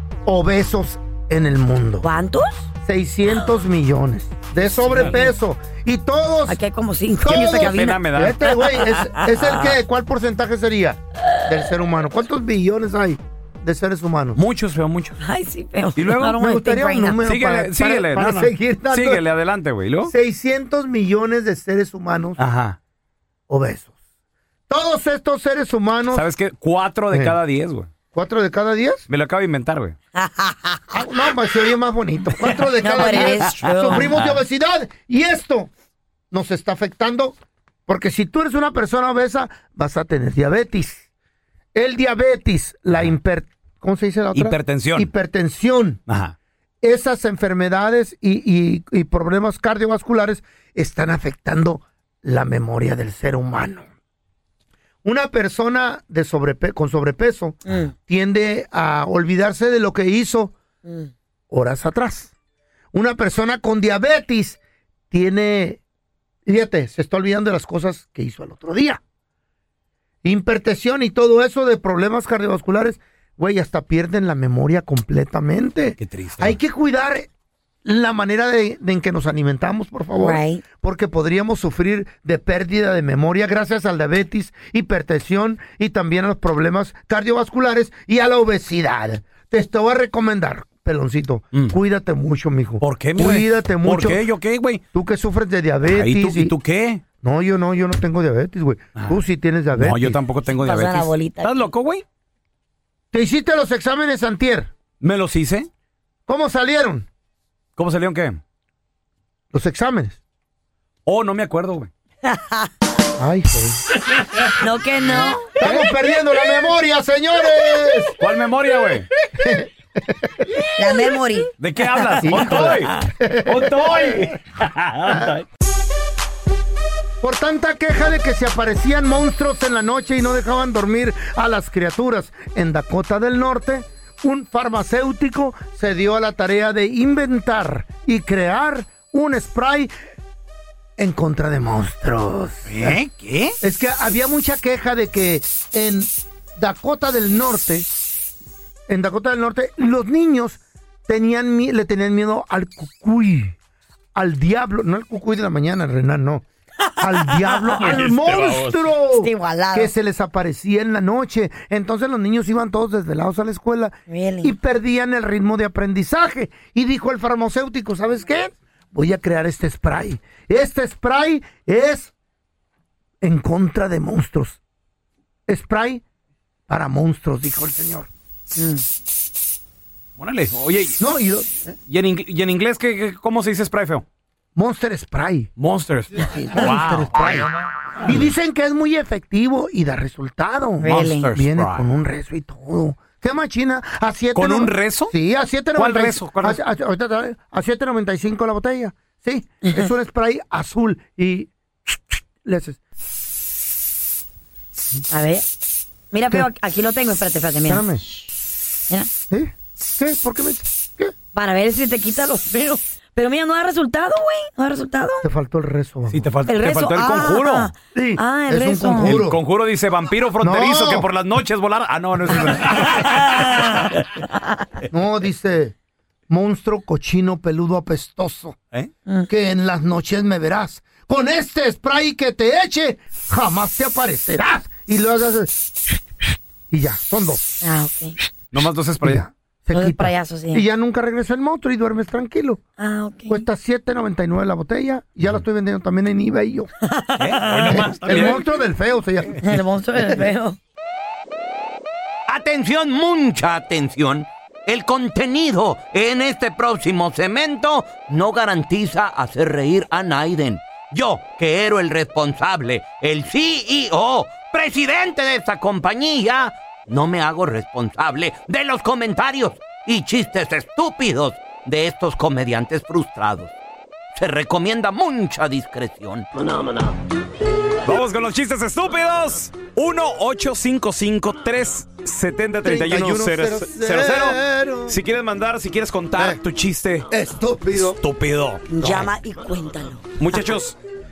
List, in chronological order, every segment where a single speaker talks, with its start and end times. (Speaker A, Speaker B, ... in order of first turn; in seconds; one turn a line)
Speaker A: 0.2-2.0
Speaker B: 2.0-2.6
Speaker A: 2.8-6.6
Speaker B: 5.0-5.3
Speaker B: 6.5-8.0
Speaker A: 7.2-14.4
Speaker C: 7.3-8.4
Speaker B: 8.7-9.5
Speaker C: 14.3-15.2
Speaker B: 15.2-17.2
Speaker C: 15.9-16.5
Speaker A: 16.4-19.2
Speaker C: 17.2-20.1
Speaker A: 20.0-22.4
Speaker C: 22.4-22.8
Speaker A: 23.5-23.9
Speaker A: 24.7-26.2
Speaker C: 26.1-27.9
Speaker A: 28.1-29.0
Speaker C: 29.1-29.9
Speaker B: 30.1-30.8
Speaker A: 30.9-35.7
Speaker B: 32.8-34.1
Speaker C: 33.2-34.4
Speaker A: 36.3-37.4
Speaker A: 37.9-41.0
Speaker A: 41.7-46.0
Speaker C: 44.3-45.1
Speaker C: 46.1-46.3
Speaker A: 46.8-53.9
Speaker A: 55.0-60.5
Speaker B: 57.7-57.9
Speaker B: 60.9-61.1
Speaker A: 61.5-62.3
Speaker A: 62.9-64.6
Speaker A: 65.1-65.8
Speaker A: 66.5-69.0
Speaker A: 70.2-77.3
Speaker C: 76.0-76.5
Speaker A: 77.8-94.2
Speaker B: 80.2-80.6
Speaker C: 92.8-94.8
Speaker A: 94.9-96.5
Speaker C: 95.9-97.0
Speaker A: 97.2-100.2
Speaker C: 99.8-102.0
Speaker B: 100.6-101.5
Speaker A: 103.1-104.7
Speaker C: 105.0-105.7
Speaker A: 106.3-107.1
Speaker C: 107.8-108.4
Speaker A: 109.5-110.2
Speaker C: 111.0-111.9
Speaker B: 112.2-112.7
Speaker A: 113.2-113.8
Speaker B: 114.6-115.6
Speaker A: 115.5-118.2
Speaker C: 118.2-119.1
Speaker A: 119.3-120.5
Speaker B: 120.8-121.5
Speaker C: 121.6-125.4
Speaker A: 122.2-124.3
Speaker A: 127.2-139.9
Speaker A: 141.0-143.0
Speaker C: 142.7-143.6
Speaker A: 143.6-147.9
Speaker A: 148.9-153.6
Speaker A: 154.1-156.4
Speaker A: 157.0-172.1
Speaker B: 157.5-157.8
Speaker C: 157.9-158.7
Speaker B: 159.2-159.9
Speaker B: 164.1-164.5
Speaker A: 173.2-174.6
Speaker A: 175.5-176.0
Speaker A: 176.7-178.1
Speaker B: 178.6-178.8
Speaker C: 180.2-181.0
Speaker A: 181.0-181.7
Speaker C: 181.9-184.0
Speaker A: 184.6-185.5
Speaker C: 185.6-187.5
Speaker A: 186.2-187.5
Speaker A: 188.0-202.8
Speaker B: 190.8-191.3
Speaker C: 190.8-191.8
Speaker C: 194.3-195.1
Speaker C: 195.7-196.6
Speaker B: 205.1-205.4
Speaker B: 206.1-207.9
Speaker A: 207.7-208.0
Speaker A: 209.3-211.1
Speaker B: 211.3-215.2
Speaker A: 215.2-216.2
Speaker C: 216.1-217.7
Speaker B: 216.5-219.2
Speaker A: 217.9-219.4
Speaker C: 219.0-223.4
Speaker A: 220.4-221.1
Speaker B: 223.0-224.0
Speaker A: 224.9-225.7
Speaker A: 226.3-228.6
Speaker A: 229.3-235.6
Speaker A: 236.7-237.4
Speaker B: 237.6-238.2
Speaker C: 238.5-239.2
Speaker A: 239.0-242.6
Speaker B: 239.7-240.6
Speaker B: 242.8-243.4
Speaker A: 243.3-246.7
Speaker B: 246.9-248.3
Speaker C: 247.2-248.4
Speaker A: 247.7-249.4
Speaker B: 249.4-250.6
Speaker D: 252.3-273.5
Speaker D: 274.1-276.3
Speaker C: 277.8-287.1
Speaker A: 282.6-285.0
Speaker A: 287.1-288.0
Speaker C: 287.7-289.0
Speaker B: 288.7-290.0
Speaker C: 290.2-290.8